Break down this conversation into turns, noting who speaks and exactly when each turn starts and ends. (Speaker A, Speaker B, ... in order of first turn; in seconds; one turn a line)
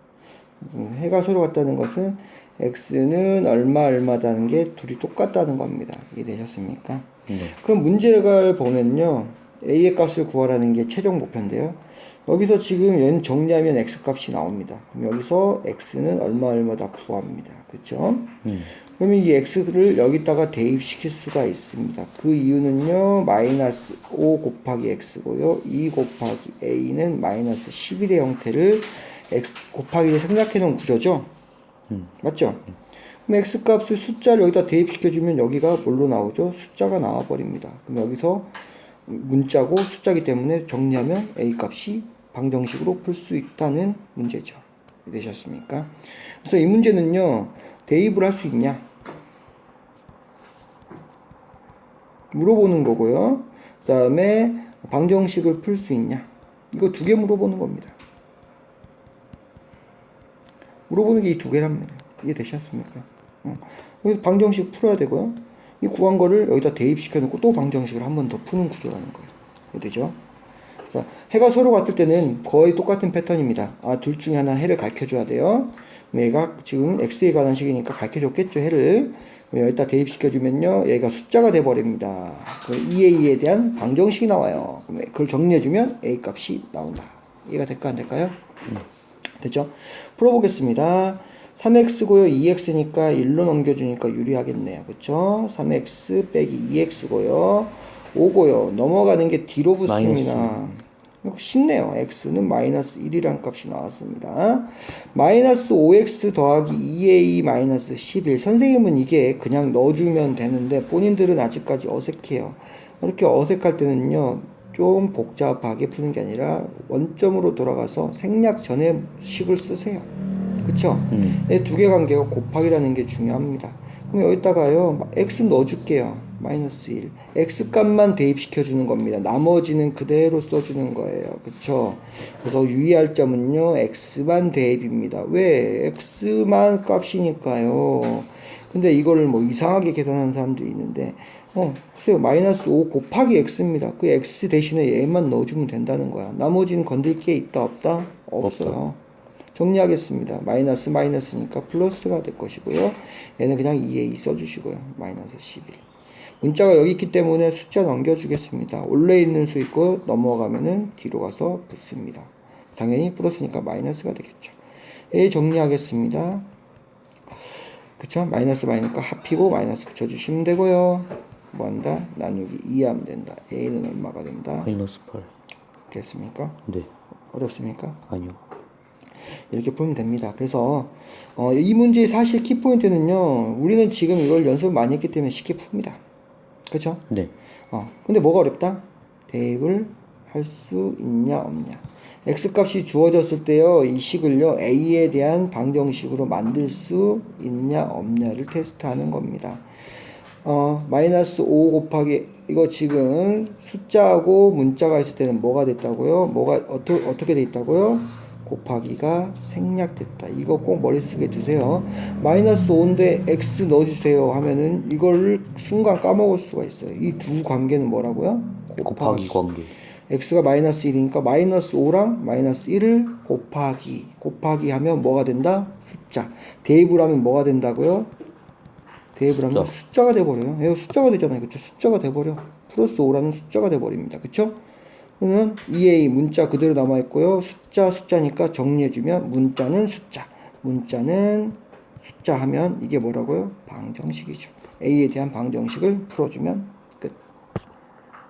Speaker A: 0.6-31.3
Speaker A: 32.2-32.6
Speaker A: 33.3-38.5
Speaker A: 39.1-48.9
Speaker A: 52.3-58.0
Speaker A: 60.9-70.2
Speaker A: 70.9-88.4
Speaker A: 89.4-120.1
Speaker B: 99.9-100.6
Speaker A: 120.6-149.0
Speaker B: 121.1-121.4
Speaker B: 148.4-148.8
Speaker A: 149.5-155.8
Speaker A: 156.4-164.6
Speaker A: 165.1-166.5
Speaker A: 168.0-174.7
Speaker B: 174.6-175.3
Speaker A: 175.9-176.7
Speaker A: 177.3-178.0
Speaker B: 178.1-178.4
Speaker A: 179.5-186.0
Speaker A: 186.7-187.1
Speaker A: 187.7-199.7
Speaker A: 200.4-219.4
Speaker B: 218.8-219.7
Speaker A: 220.1-228.1
Speaker A: 229.2-234.6
Speaker A: 235.2-247.2